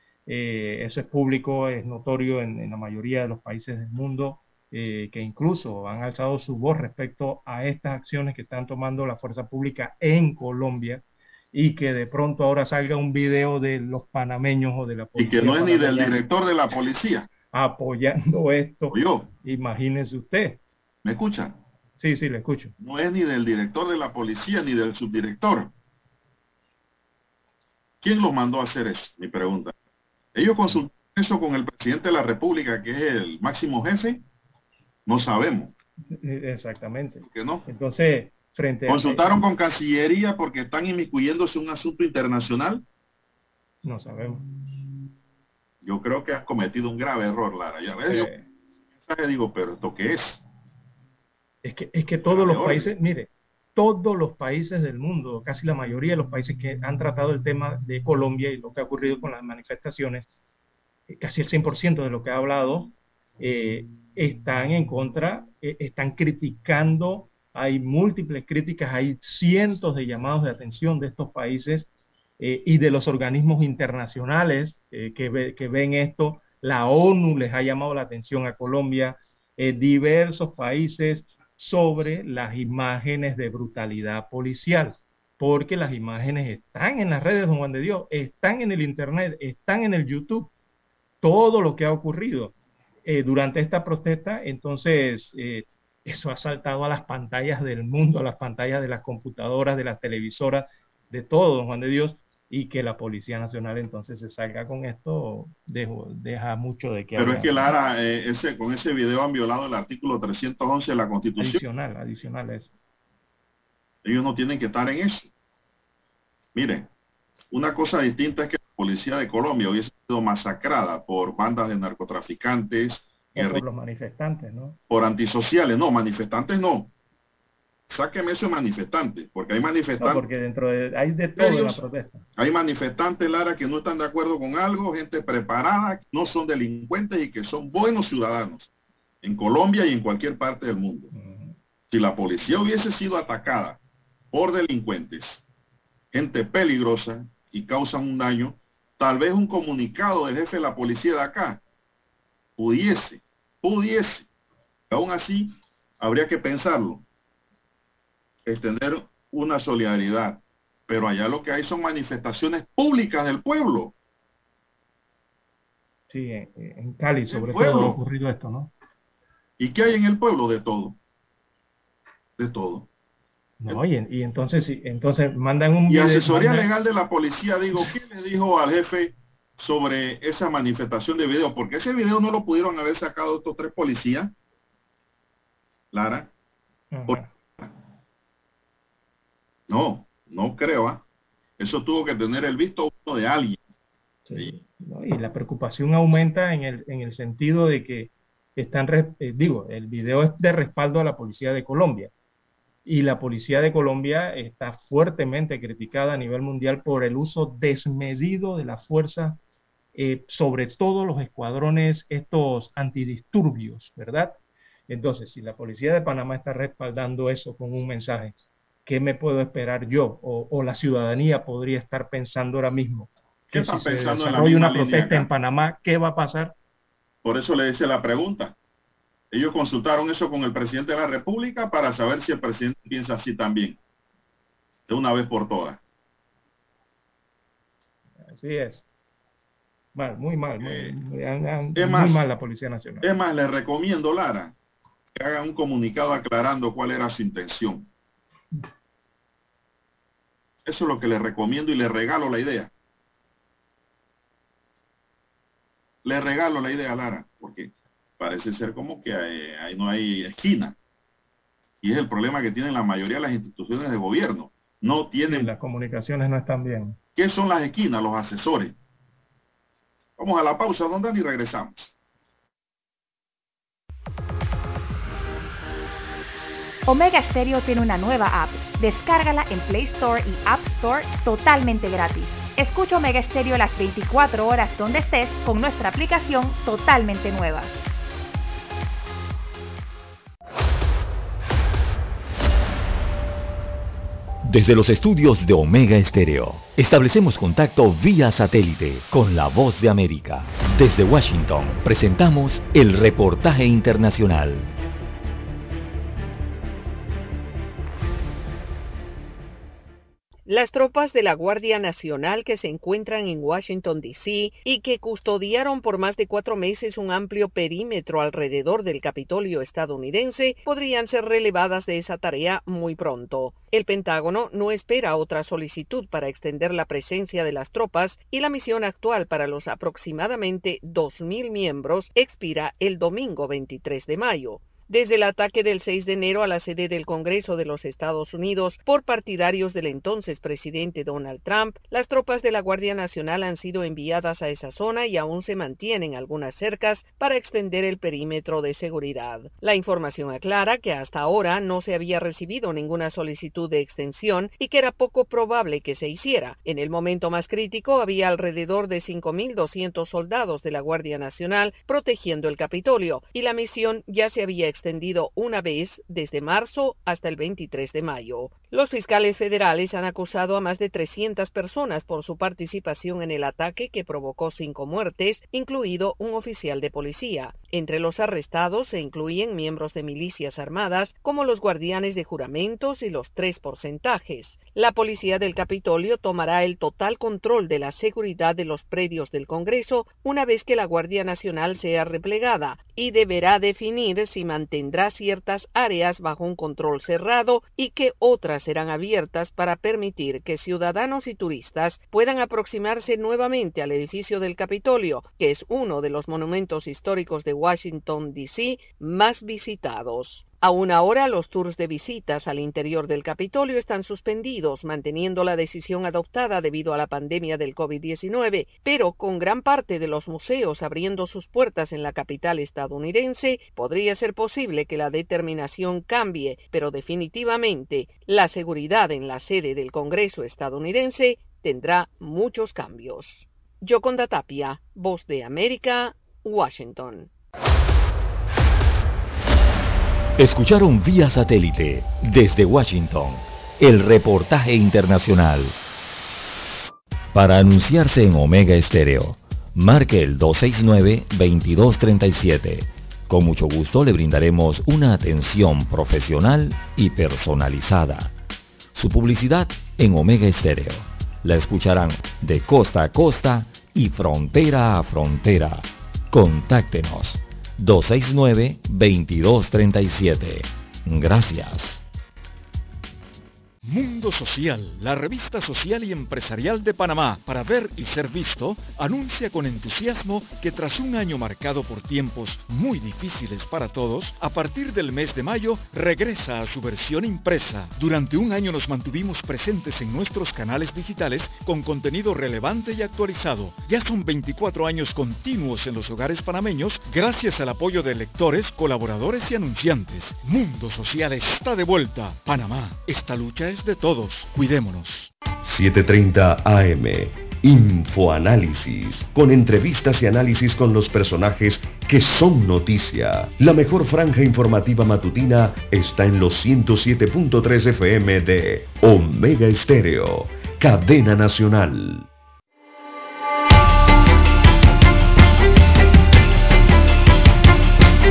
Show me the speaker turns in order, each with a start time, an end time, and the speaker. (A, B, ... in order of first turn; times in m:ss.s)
0:00.3-0:16.2 A
0:15.2-0:17.3 B
0:17.5-0:20.6 A
0:18.9-0:19.3 B
0:21.0-0:21.6 B
0:22.0-0:22.7 A
0:22.8-0:25.7 B
0:28.0-0:29.7 B
0:30.4-0:34.2 B
0:35.1-0:35.7 B
0:36.1-0:39.4 A
0:37.2-0:37.6 B
0:38.9-0:42.8 B
0:43.8-0:44.5 A
0:45.8-0:48.3 B
0:48.1-0:48.4 A
0:49.0-0:50.4 B
0:51.6-1:00.3 A
0:52.2-0:52.9 B
1:01.1-1:11.9 A
1:12.4-1:30.5 A
1:31.2-1:47.7 A
1:47.2-1:51.6 B
1:51.4-1:52.7 A
1:54.0-1:55.3 B
1:56.6-1:56.9 B
1:57.5-2:03.6 B
2:03.3-2:04.8 A
2:04.9-2:06.9 B
2:07.9-2:10.2 B
2:10.0-2:12.2 A
2:11.4-2:11.8 B
2:12.4-2:18.7 B
2:19.2-2:21.1 B
2:21.1-2:21.6 A
2:21.9-2:23.8 B
2:24.3-2:25.4 B
2:26.1-2:31.6 B
2:32.6-2:34.3 B
2:34.9-2:37.0 B
2:38.4-2:43.9 B
2:46.1-2:48.7 A
2:47.3-2:48.0 B
2:49.6-2:51.0 B
2:52.4-2:52.9 B
2:53.6-2:56.7 A
2:55.9-3:04.3 B
3:05.9-3:06.3 B
3:06.9-3:07.3 A
3:07.1-3:07.7 B
3:09.7-3:11.0 B
3:11.6-3:13.6 B
3:14.3-3:22.1 A
3:22.8-3:29.4 A
3:30.0-3:34.4 A
3:34.9-3:38.4 A
3:38.9-3:46.5 A
3:43.5-3:45.3 B
3:47.2-3:48.6 B
3:49.3-3:53.8 B
3:54.9-3:55.8 B
3:58.2-3:58.9 A
4:00.0-4:03.1 A
4:00.6-4:01.0 B
4:01.8-4:02.2 B
4:03.0-4:04.6 B
4:05.1-4:07.9 B
4:10.6-4:12.7 B
4:16.0-4:20.8 B
4:21.8-4:25.5 B
4:25.3-4:27.0 A
4:27.2-4:28.8 B
4:30.2-4:31.9 B
4:36.9-4:47.7 C
4:54.4-5:04.7 D
5:10.4-7:17.3 E
7:20.4-7:25.8 D
7:27.3-7:38.3 D
7:39.0-7:52.0 D
7:53.8-8:25.3 F
8:25.6-8:42.3 G